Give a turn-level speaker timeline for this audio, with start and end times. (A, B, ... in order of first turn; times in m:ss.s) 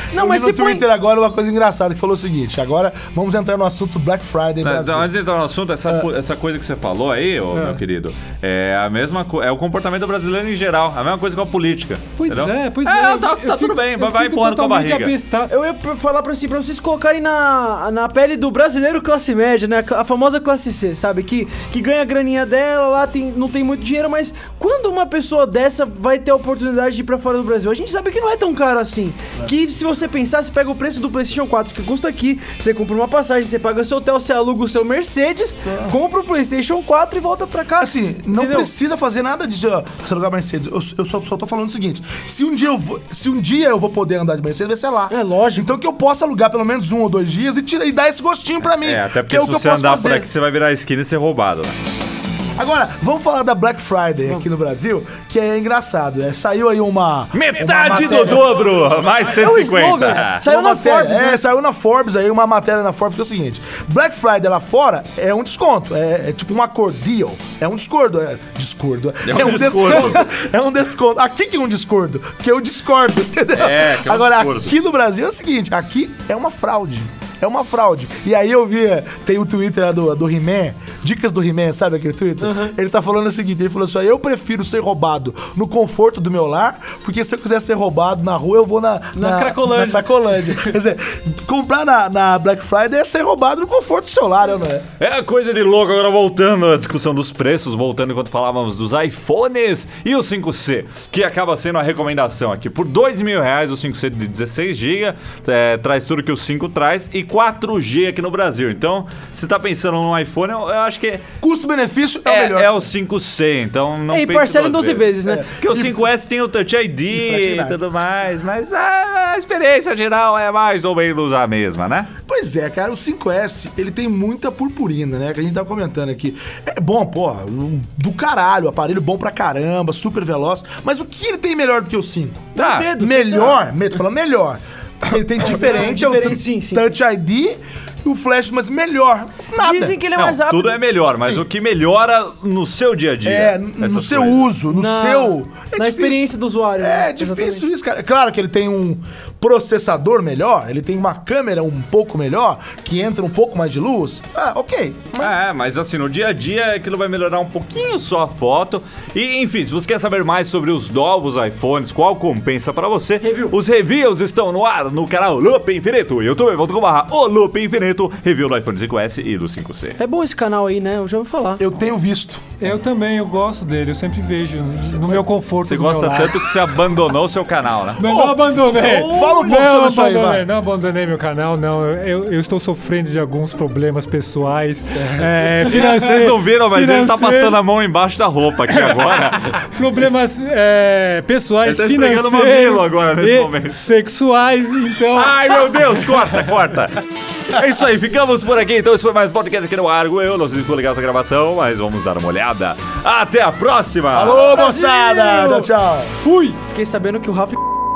0:00.1-0:05.2 A
0:00.1-0:00.8 B
0:04.6-0:15.2 C
0:07.5-0:07.8 D
0:12.2-0:15.5 D
0:15.5-0:38.7 B
0:35.7-0:36.0 A
0:37.8-0:50.3 A
0:45.1-0:45.8 B
0:48.8-0:51.7 C
0:52.6-0:58.7 A
0:57.3-1:00.4 C
0:57.9-1:01.4 B
1:00.4-1:34.9 A
1:09.2-1:10.2 C
1:13.6-1:14.8 C
1:22.4-1:22.7 B
1:29.1-1:30.8 B
1:35.0-1:51.2 C
1:51.4-1:52.9 A
1:52.3-2:02.1 C
1:54.1-1:55.5 B
1:55.2-1:56.0 A
1:57.1-1:57.9 A
2:02.3-2:20.0 A
2:12.6-2:13.6 B
2:12.6-2:12.9 C
2:15.4-2:17.0 B
2:19.6-2:20.8 B
2:20.2-2:24.5 C
2:23.2-2:35.4 A
2:24.7-2:27.6 B
2:35.2-2:50.0 C
2:43.2-2:43.5 B
2:50.0-2:51.6 B
2:51.6-2:52.4 A
2:52.6-2:56.6 D
2:55.6-2:58.1 C
2:58.0-3:07.6 D
2:58.0-3:00.5 A
2:59.0-2:59.3 B
3:04.9-3:05.3 A
3:05.6-3:09.6 C
3:08.7-3:16.0 D
3:11.6-3:13.8 C
3:15.1-3:17.0 C
3:17.5-3:24.5 C
3:24.1-3:26.2 A
3:24.2-3:27.7 B